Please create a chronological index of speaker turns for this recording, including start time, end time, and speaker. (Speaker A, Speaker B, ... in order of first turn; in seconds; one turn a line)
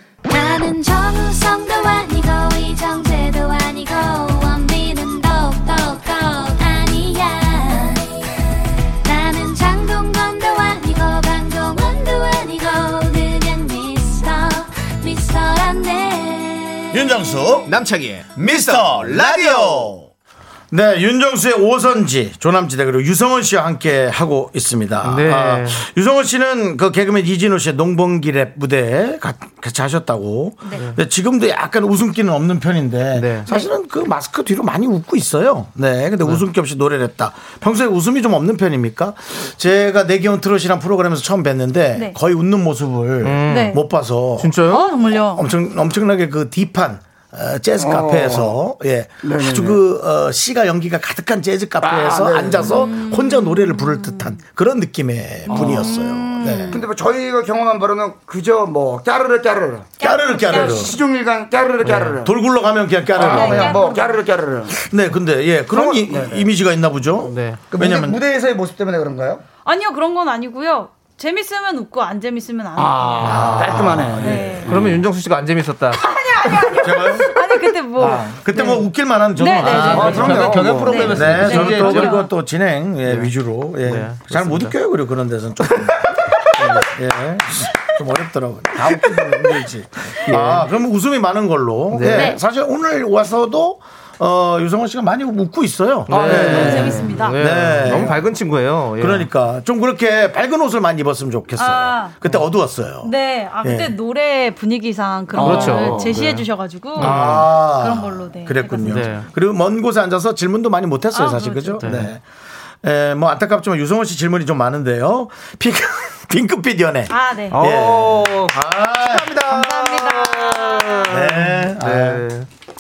Speaker A: 0.3-8.1
Speaker A: 9.0-17.0
Speaker B: 16.9-17.7
Speaker C: 17.6-20.0
Speaker B: 18.3-20.1
Speaker B: 20.7-44.5
Speaker C: 25.0-25.8
Speaker C: 33.1-33.5
Speaker C: 43.2-43.8
Speaker D: 43.5-43.8
Speaker C: 44.4-44.9
Speaker D: 44.6-45.5
Speaker B: 45.3-56.8
Speaker E: 47.8-48.6
Speaker E: 49.2-49.8
Speaker E: 51.8-52.9
Speaker D: 52.6-54.4
Speaker D: 55.5-56.9
Speaker E: 55.5-55.8
Speaker E: 56.7-60.0
Speaker D: 60.0-61.0
Speaker B: 60.0-61.0
Speaker E: 60.5-62.3
Speaker C: 61.8-62.2
Speaker B: 62.2-63.8
Speaker E: 63.1-64.8
Speaker D: 63.2-64.2
Speaker B: 64.8-68.2
Speaker E: 65.7-66.5
Speaker C: 67.2-67.6
Speaker E: 67.7-69.4
Speaker D: 69.6-74.7
Speaker E: 72.8-75.0
Speaker C: 73.2-76.6
Speaker B: 73.2-74.9
Speaker D: 75.9-78.8
Speaker B: 76.8-77.3
Speaker B: 78.0-80.4
Speaker D: 79.3-82.3
Speaker C: 79.6-82.2
Speaker E: 79.9-81.2
Speaker B: 81.0-98.2
Speaker C: 83.8-84.7
Speaker C: 90.2-90.7
Speaker C: 91.9-92.4
Speaker C: 96.1-99.3
Speaker E: 96.1-96.9
Speaker D: 96.1-97.4
Speaker B: 99.0-103.9
Speaker D: 101.5-102.2
Speaker D: 103.0-109.1
Speaker C: 105.3-107.5
Speaker E: 105.4-106.1
Speaker B: 107.0-112.2
Speaker C: 108.8-109.3
Speaker D: 111.1-112.0
Speaker C: 111.8-112.1
Speaker B: 112.8-119.4
Speaker D: 117.1-117.6
Speaker C: 117.5-122.5
Speaker D: 119.4-121.3
Speaker B: 121.1-122.3